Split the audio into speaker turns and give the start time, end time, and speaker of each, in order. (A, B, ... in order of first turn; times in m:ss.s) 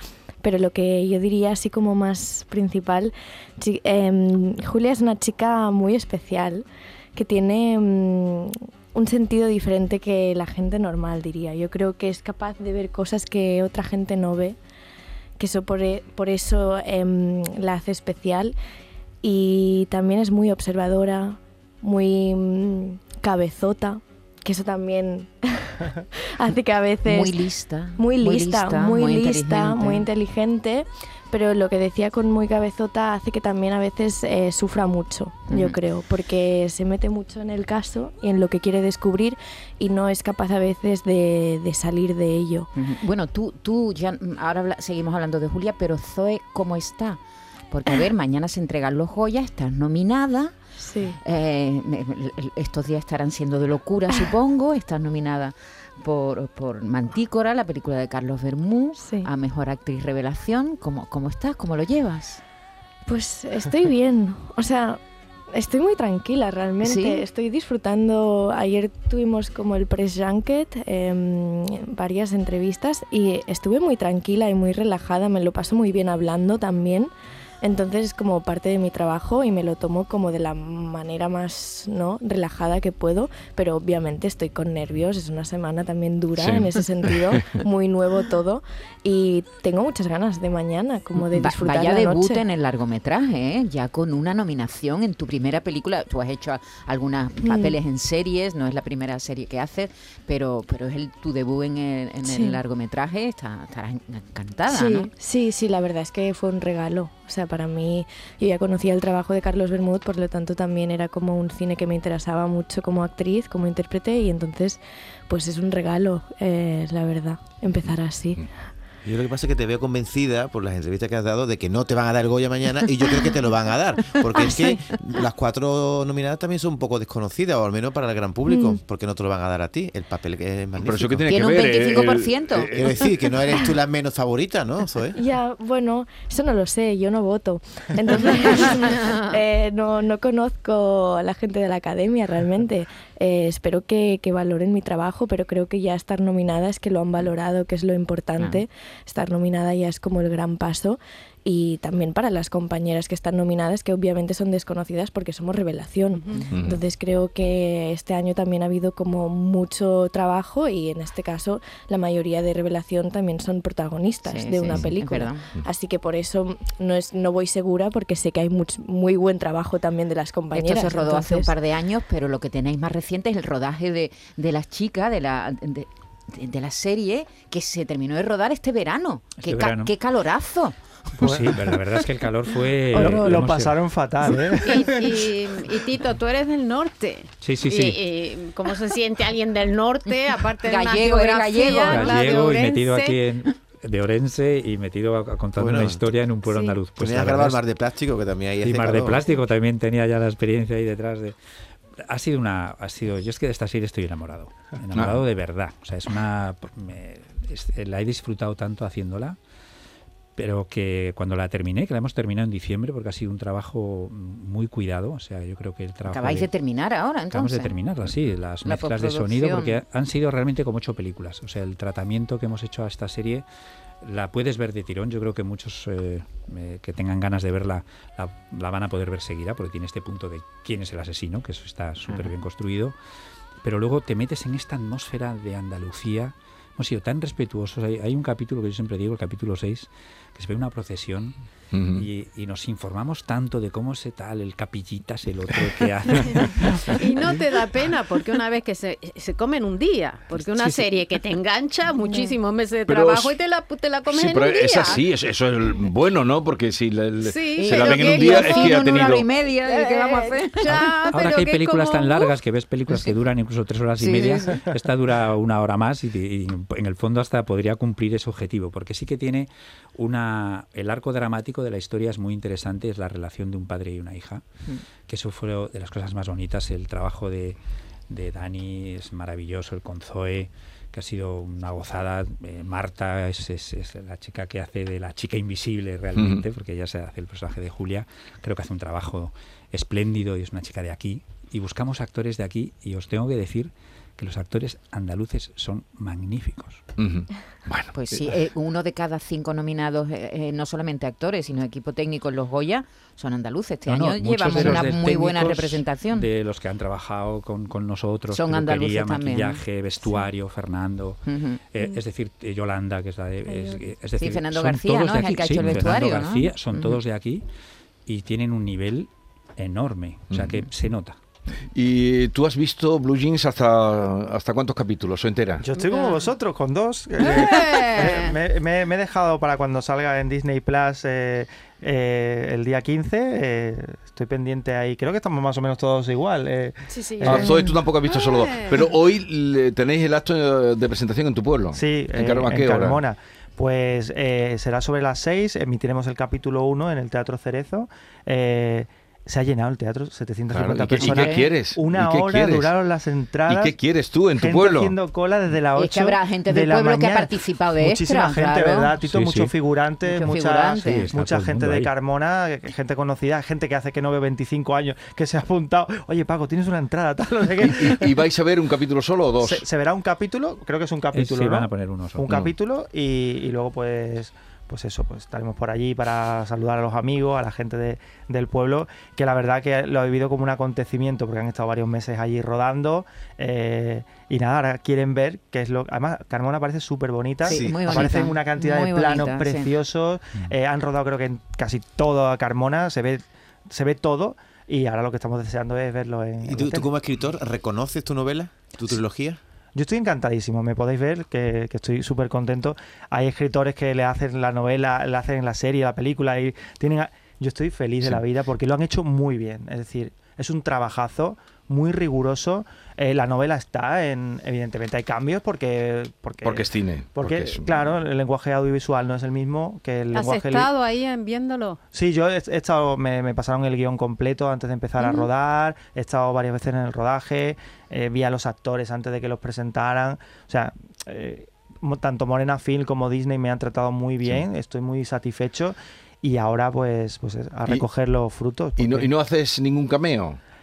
0:00.4-0:14.6 A
0:15.4-0:18.5 A
0:19.2-0:42.7 A
0:27.0-0:30.1 B
0:35.5-0:35.8 B
0:42.8-0:47.2 B
0:47.7-0:50.5 B
0:50.8-0:51.2 A
0:51.1-1:02.4 B
0:59.0-0:59.3 A
1:03.0-1:05.0 A
1:05.5-1:17.1 A
1:06.8-1:07.2 B
1:17.6-1:32.4 A
1:26.4-1:27.4 C
1:31.2-1:45.1 B
1:37.4-1:37.8 A
1:42.2-1:42.6 A
1:44.7-1:58.4 A
1:57.8-1:58.5 C
1:59.0-2:11.3 D
2:04.3-2:04.8 A
2:08.4-2:08.8 A
2:10.8-2:13.0 C
2:11.3-2:12.7 B
2:12.7-2:15.2 D
2:15.1-2:51.5 A
2:28.4-2:28.6 B
2:36.1-2:36.4 E
2:36.5-2:36.8 C
2:44.2-2:45.5 B
2:50.5-3:00.8 B
2:59.4-2:59.9 F
3:01.2-3:03.8 F
3:01.2-3:01.6 G
3:02.9-3:05.3 G
3:03.0-3:03.4 A
3:04.6-3:13.2 E
3:07.4-3:08.0 F
3:10.6-3:12.2 B
3:11.9-3:17.6 F
3:15.6-3:16.1 D
3:16.4-3:16.8 E
3:16.9-3:19.3 D
3:18.6-3:21.4 F
3:22.0-3:29.4 F
3:24.9-3:25.2 C
3:30.4-3:36.5 F
3:36.1-3:37.8 B
3:37.3-3:43.5 F
3:38.6-3:39.8 B
3:44.0-3:53.0 F
3:53.6-4:01.4 F
4:01.7-4:02.0 C
4:01.9-4:07.0 F
4:06.3-4:15.0 E
4:10.3-4:10.8 F
4:12.0-4:12.4 A
4:12.9-4:13.4 C
4:14.1-4:19.2 C
4:17.2-4:19.0 E
4:17.6-4:20.8 B
4:19.6-4:22.3 E
4:20.7-4:34.4 F
4:24.0-4:24.6 B
4:35.0-4:37.6 F
4:38.1-4:56.8 F
4:46.2-4:46.4 C
4:57.0-4:58.4 C
4:57.9-5:06.3 B
5:03.8-5:17.4 F
5:08.3-5:09.6 B
5:11.2-5:11.6 B
5:13.5-5:13.8 A
5:14.2-5:17.0 B
5:18.0-5:21.2 F
5:20.3-5:20.6 C
5:21.7-5:25.6 C
5:25.6-5:37.6 G
5:25.8-5:26.2 E
5:27.2-5:28.4 E
5:36.9-5:37.7 A
5:37.2-5:43.0 C
5:38.1-5:38.9 E
5:41.7-5:53.7 G
5:50.5-5:52.7 C
5:51.0-5:51.5 B
5:53.5-5:54.9 C
5:54.3-6:08.1 G
5:55.7-5:59.0 B
5:59.0-5:59.5 F
6:00.0-6:01.2 B
6:00.8-6:01.9 F
6:07.6-6:09.6 C
6:09.4-6:36.9 G
6:11.1-6:12.3 F
6:27.4-6:28.2 D
6:27.4-6:29.7 B
6:36.4-6:39.4 D
6:39.7-7:00.7 G
6:56.4-6:58.0 C
7:00.1-7:01.8 E
7:01.9-7:19.1 G
7:05.0-7:05.2 E
7:18.8-7:20.4 C